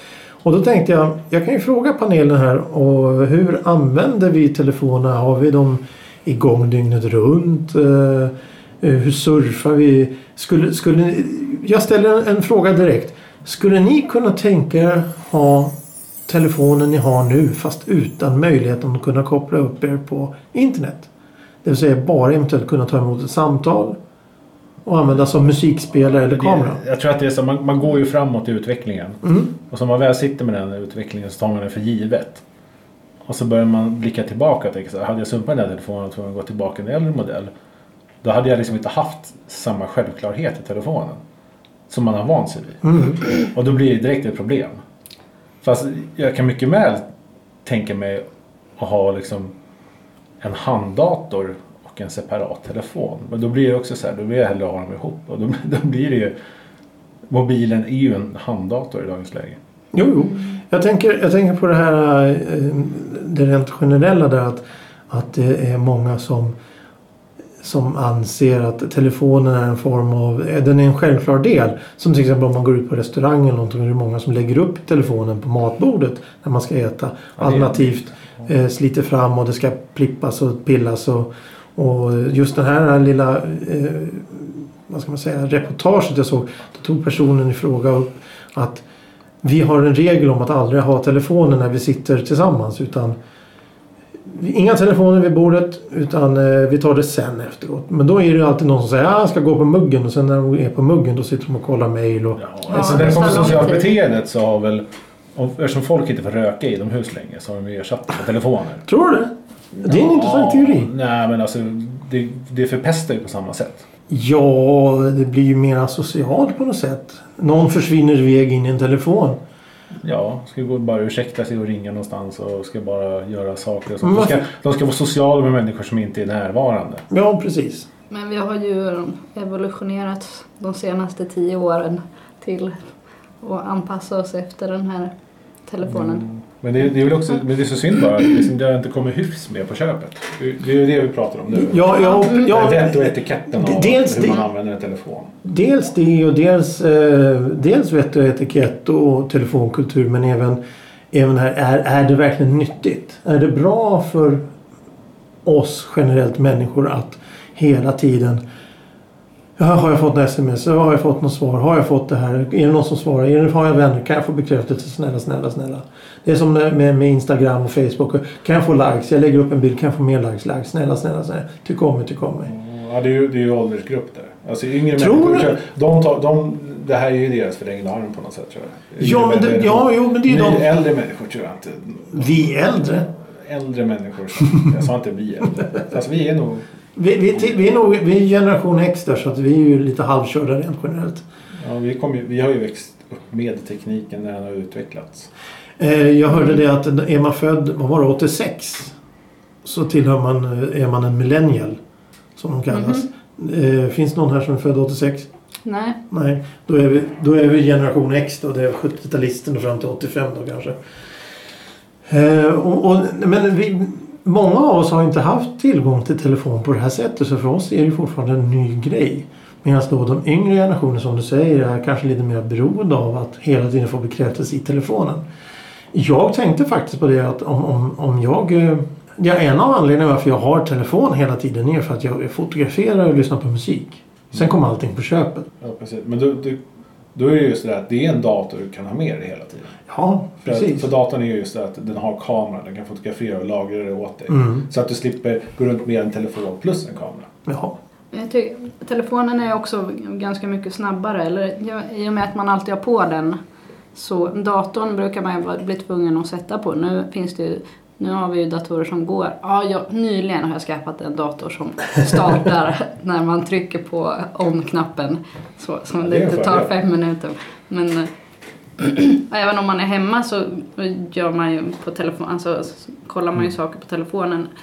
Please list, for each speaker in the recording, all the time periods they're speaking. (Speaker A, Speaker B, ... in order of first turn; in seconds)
Speaker A: 0.4-15.7, 16.3-21.1, 21.6-24.0, 24.9-26.8, 29.2-29.5, 42.8-43.2, 59.9-66.5, 67.6-88.8, 89.4-93.2, 94.3-103.7, 108.9-110.9, 114.1-119.4, 124.0-124.5, 127.1-127.9, 141.5-144.4, 145.4-150.6, 151.1-154.4, 155.4-158.4, 159.6-172.5, 174.9-175.6, 179.0-180.7, 182.1-183.1, 186.9-191.2, 195.8-198.9, 199.7-201.8, 202.4-205.3, 206.1-210.8, 212.1-225.2, 225.9-235.5, 239.9-240.9, 244.3-244.7, 247.5-247.8
Speaker B: 26.2-32.4, 33.2-37.5, 38.2-41.2, 41.9-44.8, 45.6-47.0, 47.6-48.2, 48.8-49.5, 50.4-56.4, 57.3-59.6, 77.4-78.1, 102.4-108.8, 109.8-113.8, 120.0-127.0, 135.8-145.3, 172.5-182.7, 183.2-186.7, 191.6-195.3, 235.6-236.6, 237.2-239.8, 240.4-247.3, 266.0-266.7
Speaker C: 102.7-103.9, 128.1-132.9, 133.4-135.1, 135.7-136.2, 202.7-203.0, 205.7-206.0, 248.1-253.4, 253.9-268.1, 268.8-274.5